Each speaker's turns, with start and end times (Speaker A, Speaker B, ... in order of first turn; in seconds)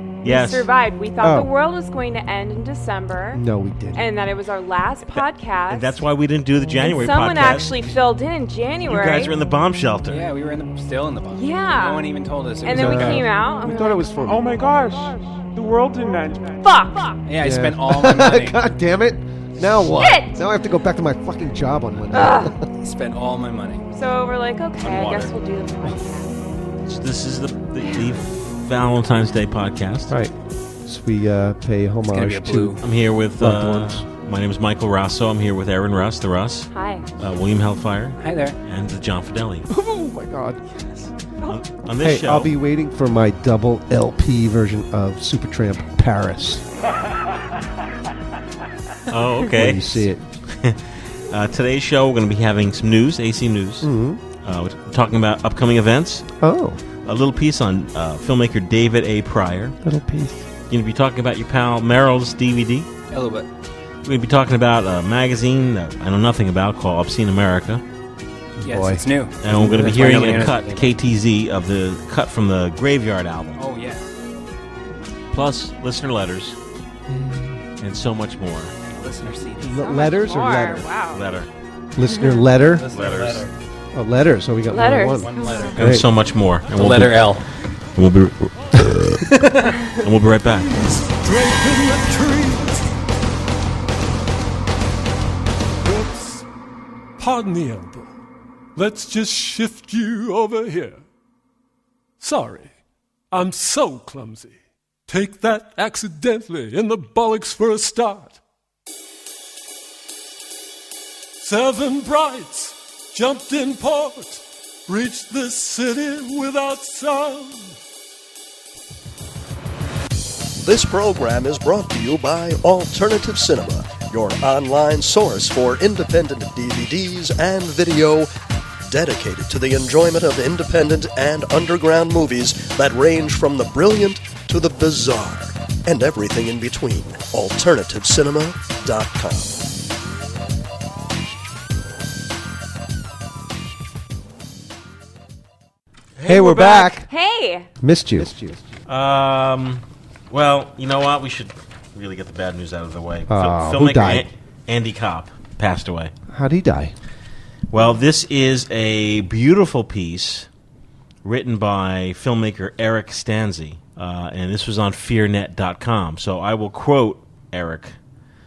Speaker A: 0.2-0.7, 5.1-7.9, 8.9-10.2, 24.8-25.3, 26.9-30.1, 32.8-39.7, 41.5-42.5, 49.1-56.3, 57.0-59.8, 60.7-62.9, 64.0-67.8, 69.4-73.6, 75.3-76.6, 77.8-78.8, 81.1-81.5, 82.9-83.5, 85.8-87.4, 88.0-89.2, 89.9-90.7, 146.2-146.9, 148.9-156.1, 157.7-160.5, 161.2-168.0
Speaker B: 0.2-3.4, 4.0-6.0, 6.8-9.3, 11.3-14.1, 16.6-17.2, 19.9-20.4, 22.1-22.6, 23.9-26.4, 27.8-28.2, 36.7-37.1, 79.7-81.3, 82.1-82.5, 84.7-85.7, 147.1-147.7
Speaker C: 1.2-1.5, 3.3-4.1, 12.7-14.6, 17.4-22.6, 30.1-30.3, 30.9-32.8, 33.4-34.1, 39.7-40.6, 42.0-46.6, 49.5-50.2, 53.8-54.2, 56.4-56.8, 59.8-60.5, 68.6-70.3, 77.1-77.6, 79.6-80.9, 82.0-82.9, 83.9-86.1, 146.2-147.1, 147.8-148.7, 153.3-154.3, 156.3-156.9
Speaker D: 10.1-13.3, 17.3-18.6, 22.8-23.8, 32.1-32.8, 38.2-38.6, 63.1-63.5, 68.6-70.9, 73.6-74.0, 78.8-80.0, 82.6-83.5, 85.2-85.9, 86.8-87.5, 89.3-89.8
Speaker E: 14.2-16.7
Speaker F: 90.8-92.9, 95.8-96.5, 97.2-98.1, 98.8-101.0, 102.2-102.8, 103.3-108.4, 111.4-117.8
Speaker G: 120.6-128.3, 128.9-139.6